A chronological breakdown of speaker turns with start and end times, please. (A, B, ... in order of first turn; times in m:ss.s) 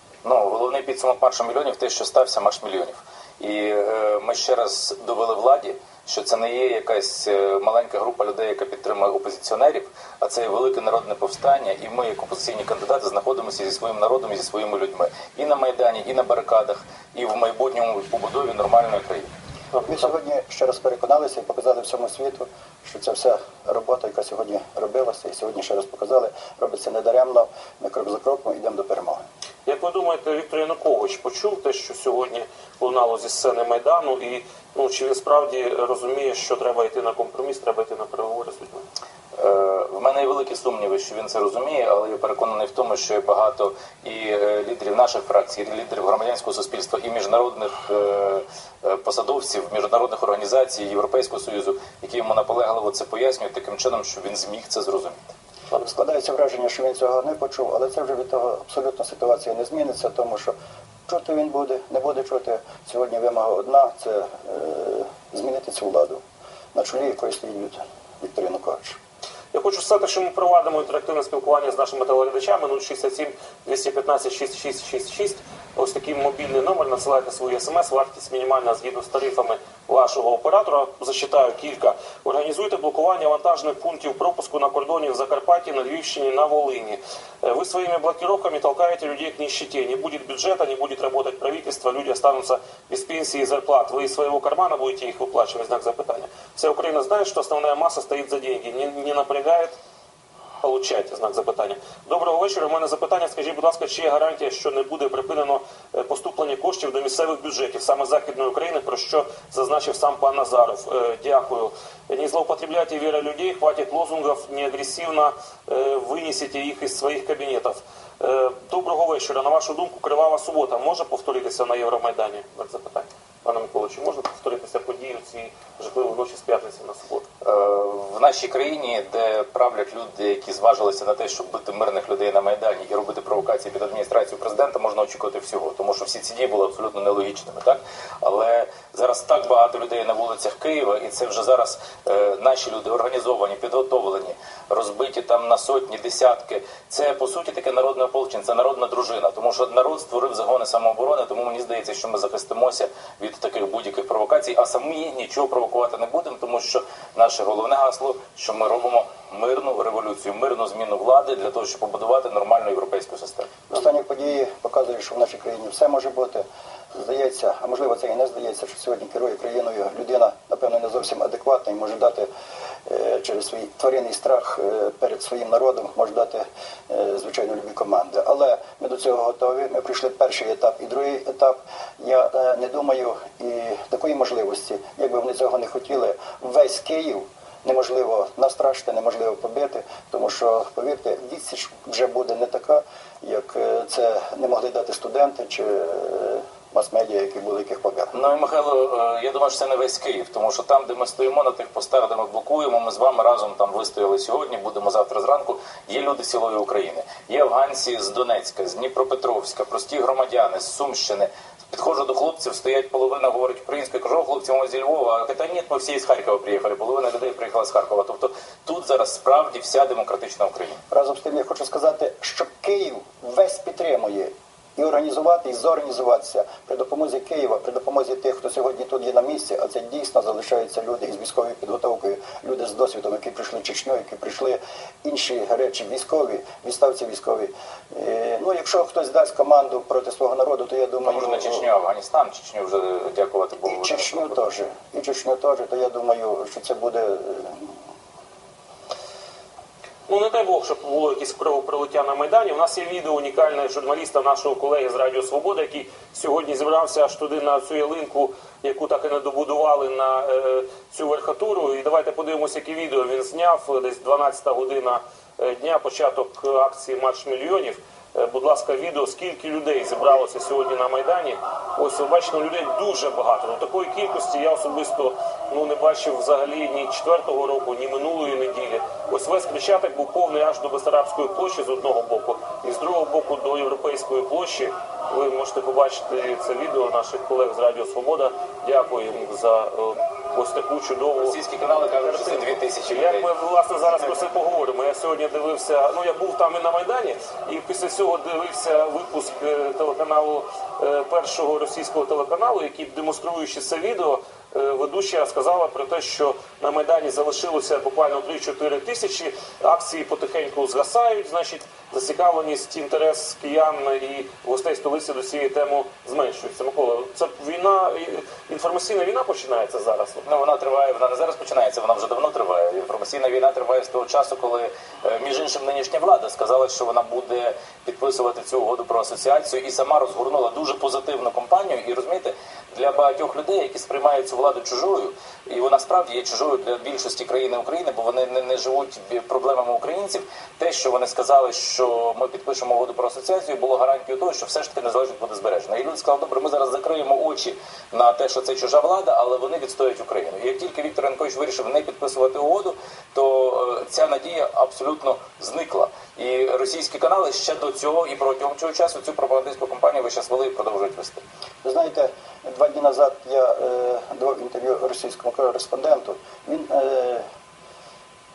0:00.2-0:19.3 A
0:19.7-0:20.1 B
0:19.8-0:29.2 C
0:29.7-0:38.8 B
0:39.4-0:55.3 A
0:55.8-1:00.5 C
1:01.1-1:06.2 C
1:06.7-1:09.0 C
1:09.5-1:39.8 B
1:40.6-2:07.2 B
2:07.4-2:43.5 A
2:43.7-2:46.4 C
2:47.0-2:52.3 C
2:52.9-3:18.1 C
3:18.1-3:40.8 A
3:40.9-4:01.7 C
4:01.0-4:04.5 A
4:03.6-4:07.6 C
4:10.1-4:51.4 B
4:51.2-4:53.3 A
4:52.0-5:20.2 B
5:20.2-6:01.2 A
6:01.6-6:07.2 C